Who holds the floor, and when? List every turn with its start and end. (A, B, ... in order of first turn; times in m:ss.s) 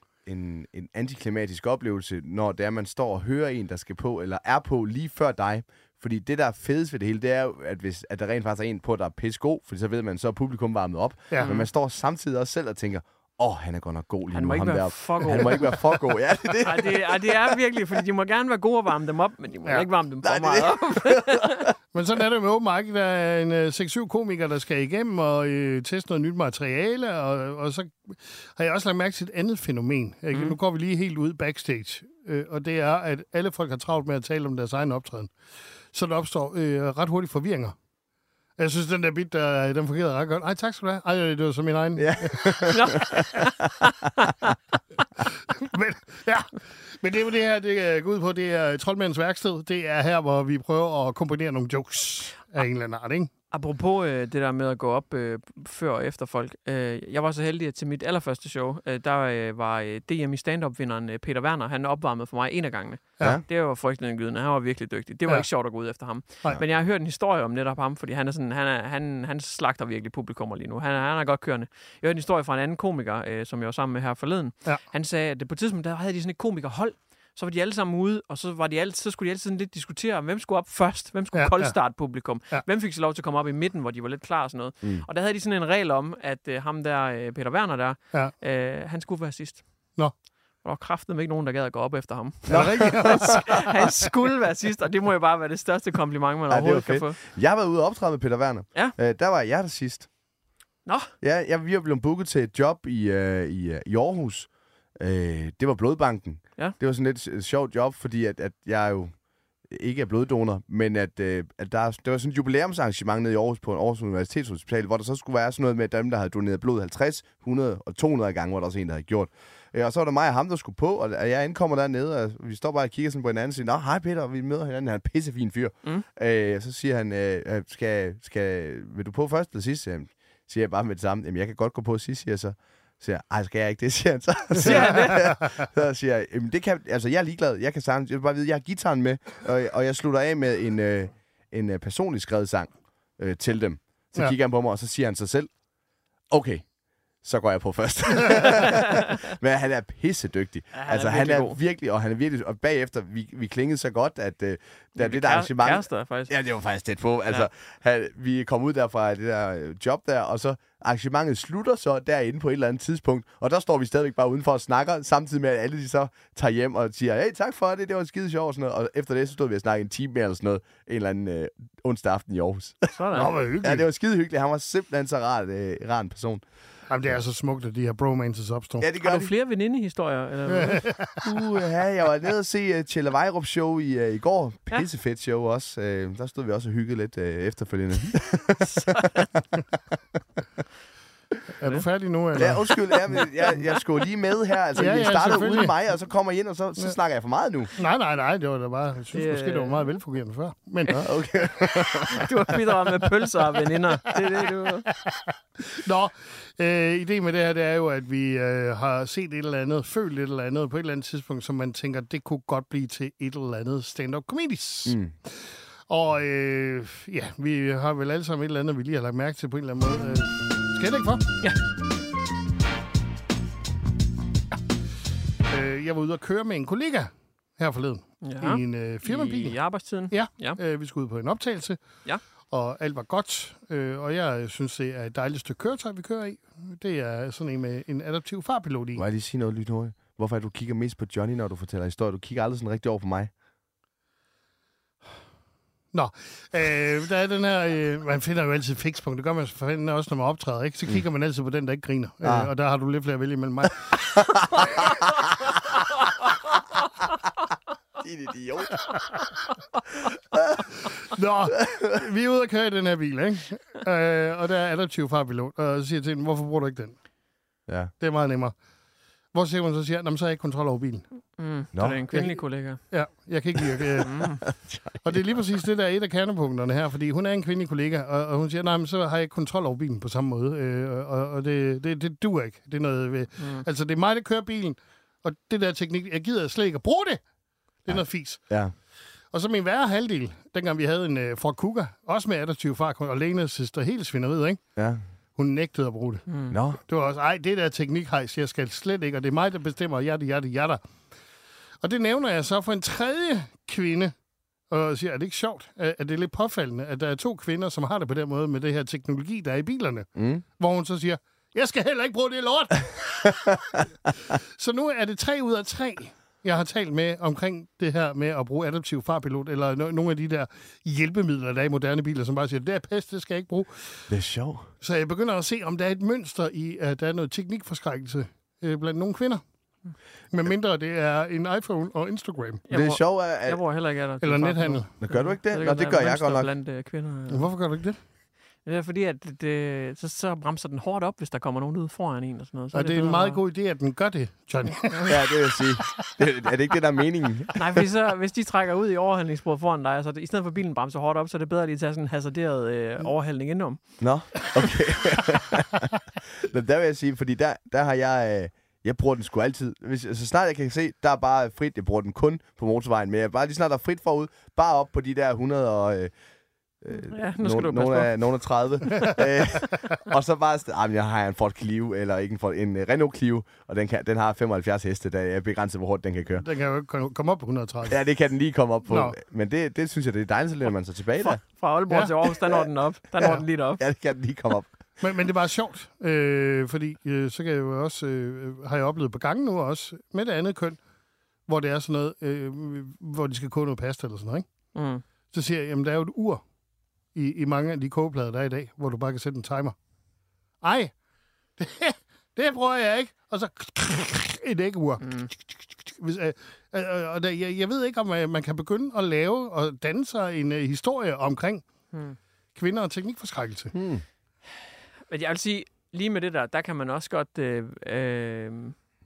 0:00.2-0:17.6 A
0:11.4-0:11.7 B
0:14.3-0:15.8 B
0:16.6-0:21.6 B
0:20.2-0:21.7 A
0:21.9-0:35.3 C
0:35.9-0:37.7 C
0:38.6-0:42.7 C
0:42.0-0:43.7 A
0:42.7-0:44.5 B
0:45.5-0:53.3 C
0:53.5-1:29.6 B
1:21.3-1:21.7 C
1:30.6-1:37.2 B
1:32.5-1:33.6 A
1:32.5-1:33.8 C
1:36.5-1:40.1 A
1:40.8-1:41.1 B
1:41.2-1:49.1 A
1:49.7-2:25.5 A
2:14.6-2:15.2 B
2:26.3-2:26.6 A
2:27.2-2:56.4 A
2:30.7-2:31.6 B
2:35.0-2:36.3 B
2:52.9-2:53.3 B
2:53.2-2:53.8 C
2:56.9-2:58.8 C
2:58.8-2:59.3 A
2:59.0-3:00.8 B
3:00.5-3:01.2 C
3:01.2-3:09.4 A
3:08.6-3:09.3 B
3:11.6-3:12.6 C
3:12.4-3:17.7 A
3:14.8-3:15.7 C
3:17.8-3:21.1 C
3:19.1-3:19.8 B
3:21.0-3:22.5 A
3:21.6-3:24.9 B
3:24.9-3:41.2 C
3:45.5-3:51.8 C
3:48.2-3:50.6 B
3:52.5-3:59.0 C
3:59.0-4:03.3 A
4:05.9-4:13.9 C
4:12.2-4:12.5 A
4:14.1-4:15.5 A
4:18.0-4:18.9 A
4:20.3-4:20.6 A
4:20.8-4:26.9 C
4:21.6-4:22.0 A
4:27.7-4:27.9 A
4:28.0-4:28.5 C
4:29.3-4:31.0 C
4:31.4-4:32.8 B
4:31.7-4:32.0 A
4:32.1-4:34.2 C
4:34.0-4:34.4 B
4:34.6-4:35.2 A
4:35.0-4:47.2 C
4:43.4-4:43.6 B
4:47.8-4:48.4 C
4:47.9-4:48.7 A
4:49.3-4:54.6 C
4:55.4-4:56.2 C
4:56.3-4:56.5 B
4:56.5-4:56.8 A
4:56.9-5:00.8 C
5:01.8-5:04.1 C
5:04.7-5:24.1 C
5:10.2-5:10.4 A
5:24.1-5:24.7 A
5:24.8-5:29.4 C
5:30.3-5:32.6 C
5:32.7-5:37.5 B
5:32.7-5:33.6 A
5:34.2-5:34.9 C
5:35.0-5:36.5 A
5:37.3-5:38.0 C
5:38.6-5:43.4 B
5:42.7-5:45.1 C
5:45.1-5:47.8 A
5:47.6-5:53.8 B
5:54.0-6:06.1 A
6:06.8-6:16.4 A
6:06.9-6:08.1 B
6:16.4-6:18.0 C
6:17.9-6:21.4 A
6:18.9-6:19.2 C
6:21.2-6:23.8 B
6:23.2-6:24.8 A
6:25.0-6:30.8 C
6:31.5-6:34.4 C
6:34.7-6:35.0 B
6:35.3-6:36.4 C
6:37.1-6:39.7 C
6:40.6-6:40.9 C
6:41.6-6:51.6 C
6:45.0-6:45.3 B
6:51.9-6:52.2 B
6:52.6-6:53.7 C
6:53.7-6:54.0 A
6:55.1-6:58.7 B